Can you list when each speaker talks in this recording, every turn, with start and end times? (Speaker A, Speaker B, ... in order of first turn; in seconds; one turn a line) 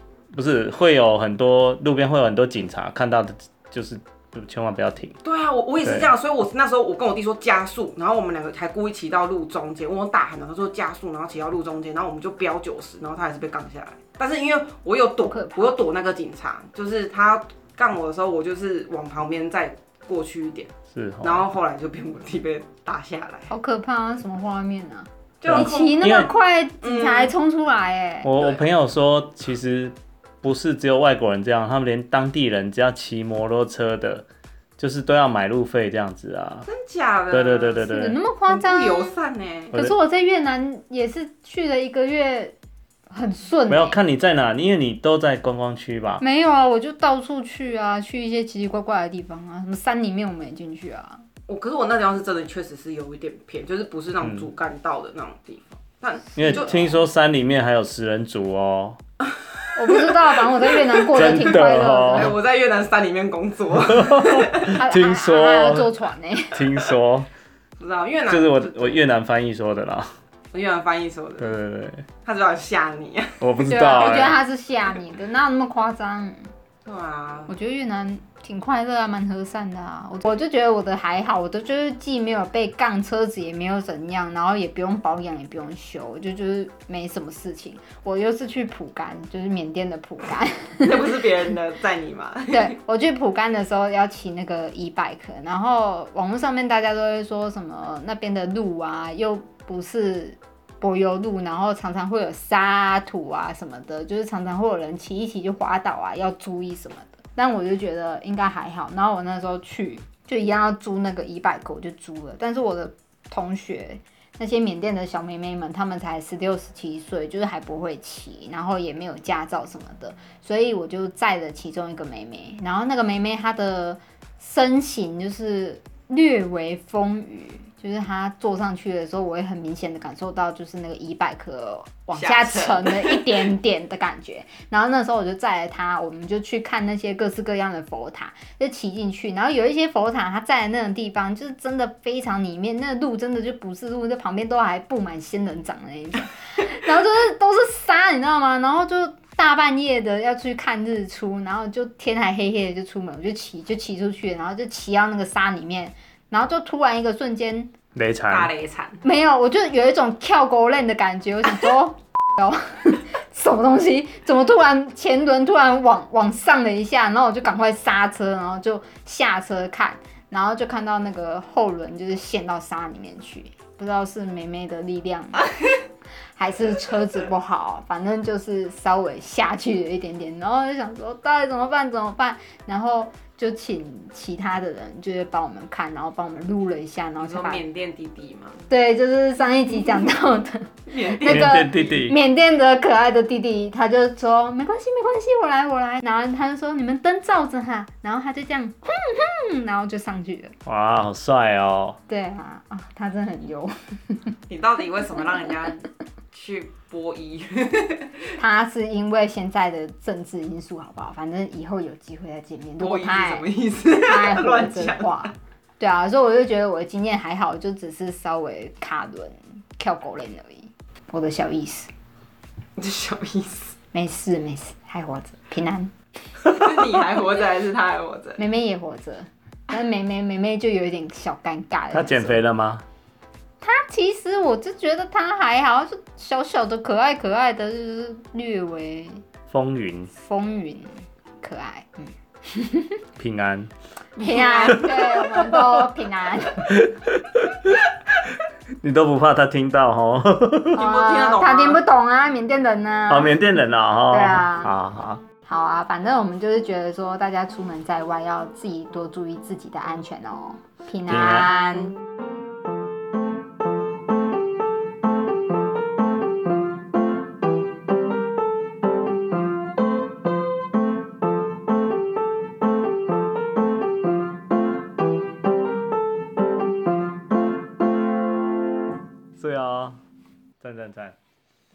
Speaker A: 0.3-5.1
Speaker B: 5.2-20.7
Speaker C: 15.3-15.7
Speaker A: 20.9-21.4
Speaker B: 21.2-23.5
Speaker C: 23.5-28.3
Speaker B: 25.4-27.3
Speaker A: 25.5-26.3
Speaker A: 28.2-34.2
Speaker B: 28.4-28.6
Speaker A: 34.8-36.6
Speaker B: 36.6-37.9
Speaker A: 37.3-38.2
Speaker C: 37.9-39.1
Speaker B: 38.5-39.7
Speaker C: 39.7-42.5
Speaker C: 43.1-44.0
Speaker A: 43.7-46.2
Speaker C: 46.2-51.2
Speaker B: 51.5-56.9
Speaker A: 56.4-59.0
Speaker C: 59.7-62.3
Speaker B: 59.9-64.8
Speaker A: 61.1-62.4
Speaker A: 63.9-65.9
Speaker C: 64.7-66.6
Speaker A: 66.5-67.3
Speaker B: 67.8-69.0
Speaker A: 68.3-70.1
Speaker B: 70.5-71.5
Speaker A: 71.4-72.0
Speaker B: 72.2-73.4
Speaker A: 73.4-74.3
Speaker C: 73.7-76.3
Speaker B: 76.8-77.5
Speaker C: 77.5-90.9
Speaker B: 90.8-92.7
Speaker C: 92.5-157.7
Speaker B: 132.1-133.5
Speaker A: 157.9-158.5
Speaker B: 158.3-159.0
Speaker C: 159.0-175.5
Speaker C: 176.3-187.6
Speaker B: 187.2-188.6
Speaker C: 188.7-200.5
Speaker B: 189.8-190.1
Speaker B: 190.9-191.9
Speaker A: 191.2-192.2
Speaker A: 200.7-202.0
Speaker C: 202.1-204.2
Speaker B: 204.5-205.8
Speaker B: 206.3-208.3
Speaker C: 208.4-221.9
Speaker B: 212.8-215.3
Speaker B: 222.8-223.7
Speaker C: 223.9-225.9
Speaker B: 226.4-228.4
Speaker C: 228.4-232.4
Speaker A: 231.9-232.8
Speaker C: 233.6-239.2
Speaker A: 239.5-240.1
Speaker C: 240.1-240.9
Speaker C: 241.4-243.0
Speaker A: 243.2-243.7
Speaker B: 244.2-244.8
Speaker C: 244.2-246.6
Speaker A: 244.7-245.9
Speaker A: 246.6-247.7
Speaker A: 248.8-250.8
Speaker C: 250.7-253.5
Speaker B: 250.8-251.8
Speaker A: 253.1-255.2
Speaker C: 254.1-254.7
Speaker C: 255.4-261.9
Speaker A: 261.1-261.5
Speaker A: 279.4-280.0
Speaker A: 280.6-281.1